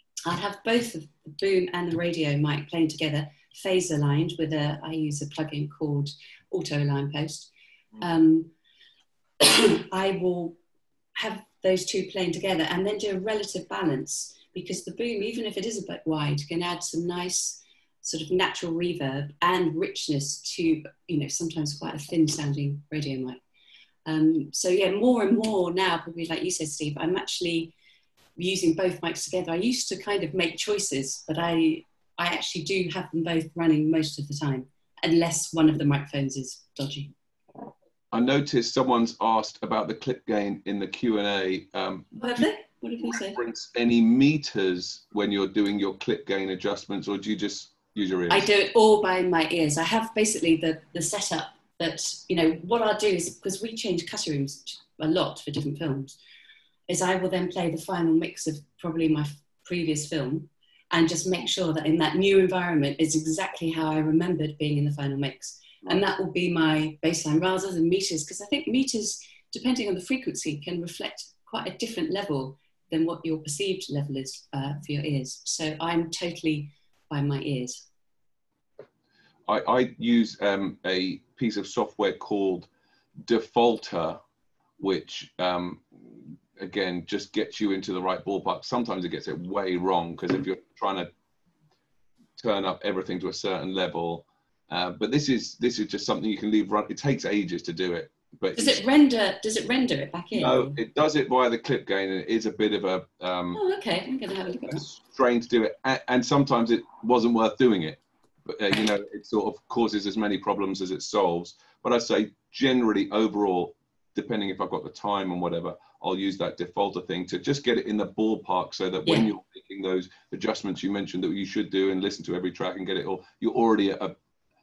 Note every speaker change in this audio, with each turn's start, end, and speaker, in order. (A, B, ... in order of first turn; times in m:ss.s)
0:00.3-0:07.5 A
0:08.0-0:08.5 A
0:09.4-0:10.6 A
0:11.2-0:23.4 A
0:24.1-0:27.7 A
0:28.4-0:37.1 A
0:38.1-0:42.4 B
0:42.2-0:43.4 A
0:43.0-0:48.5 B
0:48.3-0:56.2 A
0:56.9-1:17.8 A
1:19.5-1:22.7 B
1:23.2-1:24.2 B
1:24.8-1:31.1 B
1:32.4-1:38.8 B
1:38.6-1:40.8 A
1:40.3-1:43.6 B
1:43.6-1:44.9 A
1:44.6-2:04.2 B
1:59.1-1:59.3 A